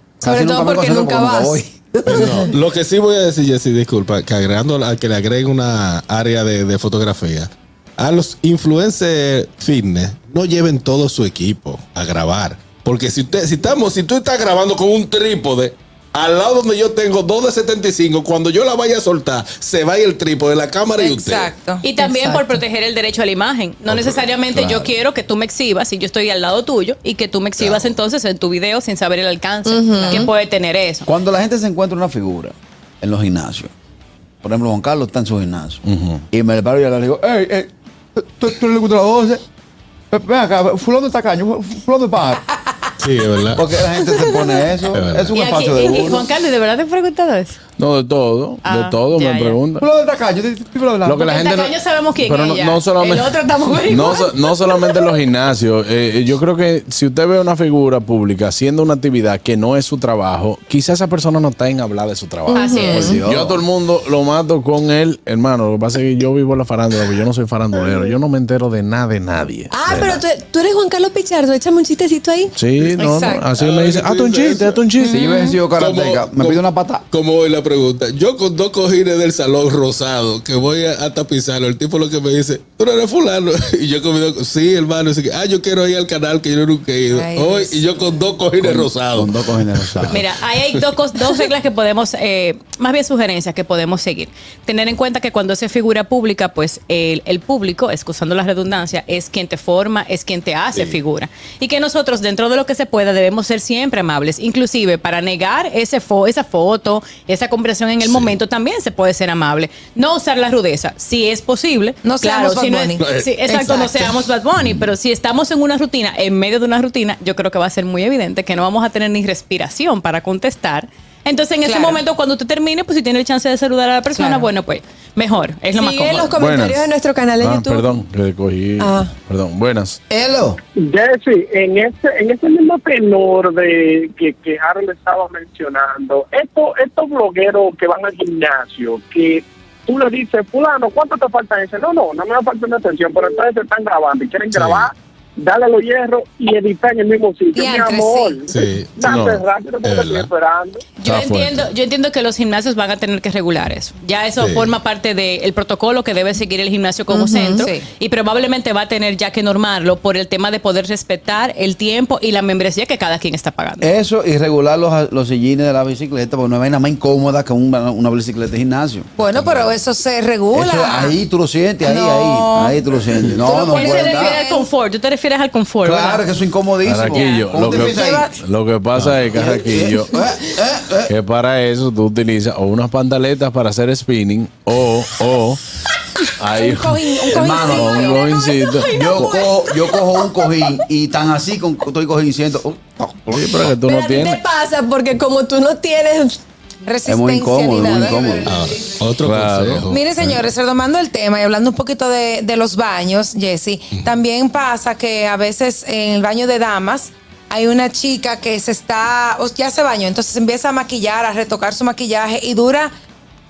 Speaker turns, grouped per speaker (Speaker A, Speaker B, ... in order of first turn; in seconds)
Speaker A: 0.2-2.3, 31.1-33.7, 34.4-39.4, 40.1-42.4, 43.5-46.3, 49.8-51.3, 62.8-63.6, 75.0-77.0, 88.6-90.2, 130.1-130.6, 163.8-169.1, 170.5-174.4, 175.8-178.3, 179.1-181.1, 187.3-188.0, 188.9-192.9, 197.1-198.5
Speaker B: 0.2-2.5, 22.0-22.6, 29.6-30.3, 62.5-63.2, 69.7-72.5, 75.1-75.6, 125.7-128.0, 128.8-129.1, 157.1-157.7, 193.8-196.4
Speaker C: 2.1-21.5, 23.9-24.9, 27.6-27.9, 43.0-43.7, 44.9-45.3, 73.5-74.8, 75.7-90.2, 108.0-108.4, 113.0-114.1, 114.6-114.9, 144.5-144.9, 148.5-150.3, 154.4-154.7, 198.5-200.4
Speaker D: 20.9-21.9, 73.0-73.5, 87.0-88.0, 112.0-113.8, 121.6-122.0, 124.1-124.5, 147.5-148.4, 157.5-157.8, 169.2-171.2, 171.8-172.8, 173.3-174.7, 177.8-178.4, 186.5-188.3, 196.8-198.5, 199.9-212.9
Speaker E: 21.8-31.1, 45.3-47.6, 48.6-49.6, 51.2-54.3, 62.5-63.1, 90.1-126.3, 151.0-163.9, 173.5-176.2, 177.1-177.5, 188.0-189.2
Speaker F: 35.8-36.2, 47.8-49.9, 51.0-70.2, 72.5-75.2, 126.3-130.0, 149.1-149.4, 151.0-151.7, 176.8-180.2, 181.1-185.6, 186.4-187.1, 187.7-189.5, 193.1-194.4, 199.2-199.8
Speaker G: 130.8-150.8